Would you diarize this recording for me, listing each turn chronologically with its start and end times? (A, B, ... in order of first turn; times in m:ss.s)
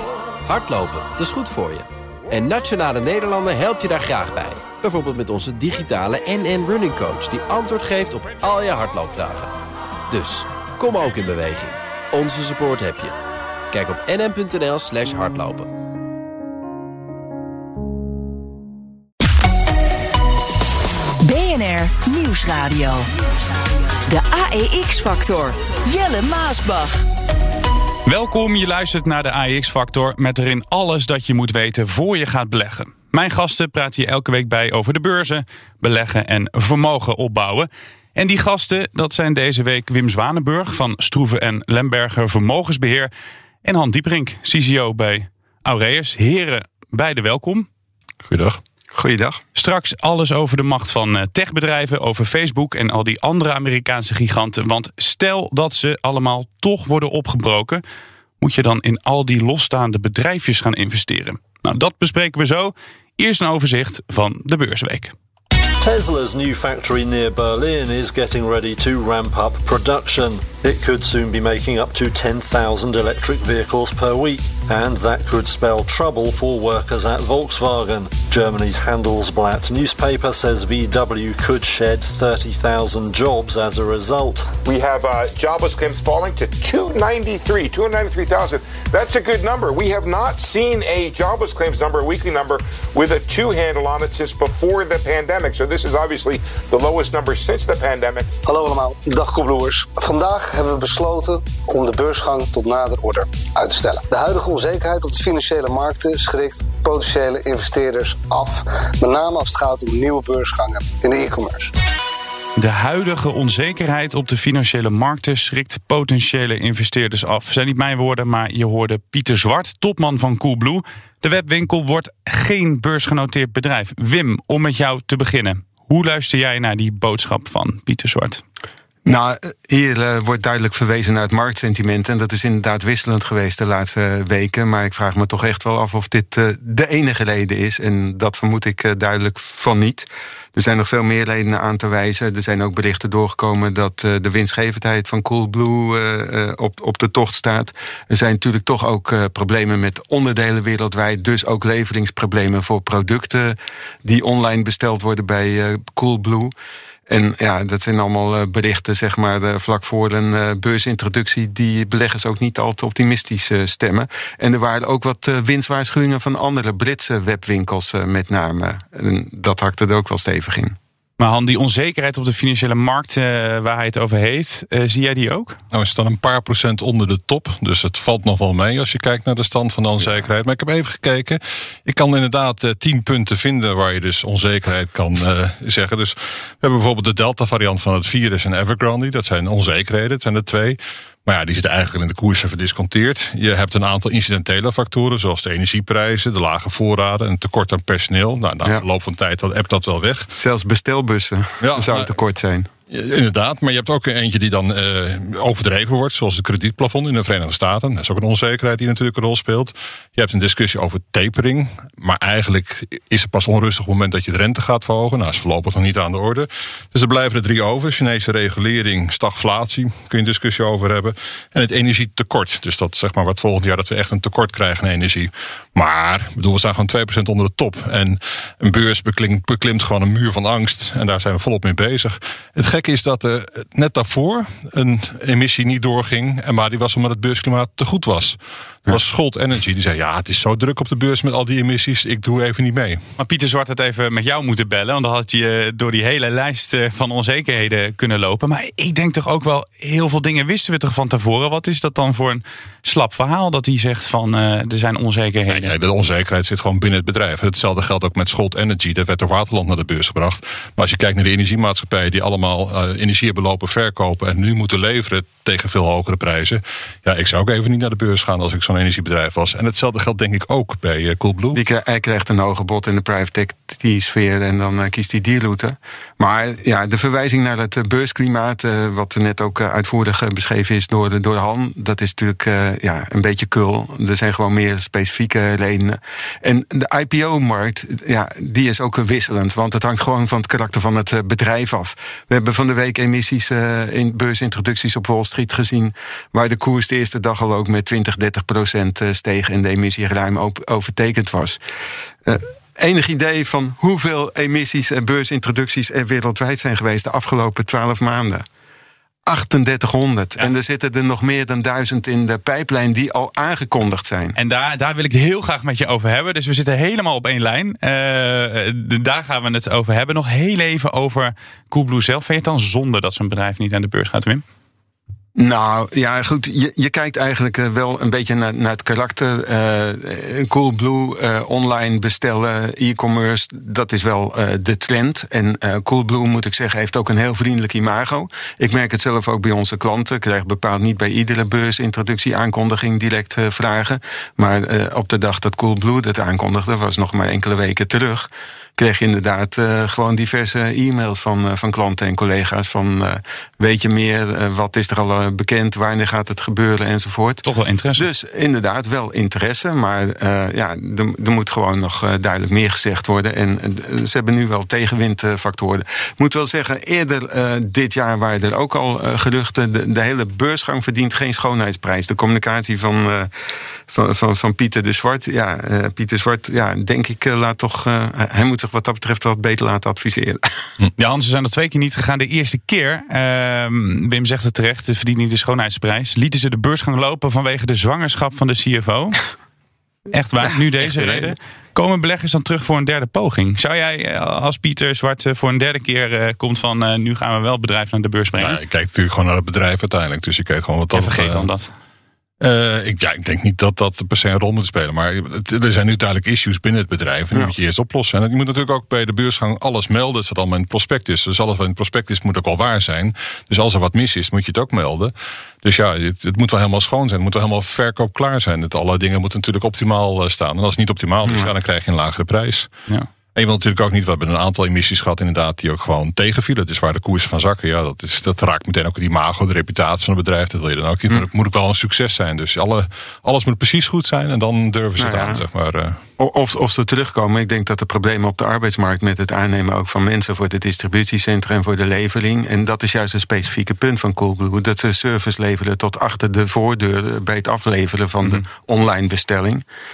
0:00.4-0:09.5 A
0:10.1-0:13.2 A
0:13.7-0:15.7 A
0:21.2-0:23.1 B
0:24.1-0:27.0 B
0:28.0-0:43.1 C
0:43.6-0:47.7 C
0:48.2-0:48.6 D
0:48.9-0:49.4 E
0:49.5-0:57.8 C
0:58.4-1:05.1 C
1:05.8-1:24.5 F
1:24.6-1:38.3 G
1:38.4-1:51.7 H
1:52.6-2:08.4 C
2:09.0-2:36.5 E
2:37.1-2:50.8 E
2:51.2-2:55.6 C
2:55.7-3:20.3 D
3:20.4-3:22.7 E
3:21.6-3:22.1 D
3:22.9-4:03.1 D
4:03.2-4:15.7 C
4:15.5-4:31.6 D
4:31.5-5:01.6 E
5:02.2-5:08.4 E
5:09.2-5:14.4 E
5:14.4-5:24.4 C
5:25.4-5:57.4 E
5:57.4-5:58.1 C
5:58.0-6:13.3 E
6:13.9-6:20.4 E
6:21.0-6:29.2 C
6:30.1-6:38.6 C
6:38.4-6:41.5 D
6:40.9-6:41.7 C
6:42.4-7:02.7 D
7:01.2-7:01.5 E
7:03.3-7:16.0 D
7:15.0-7:15.4 E
7:16.2-7:29.6 E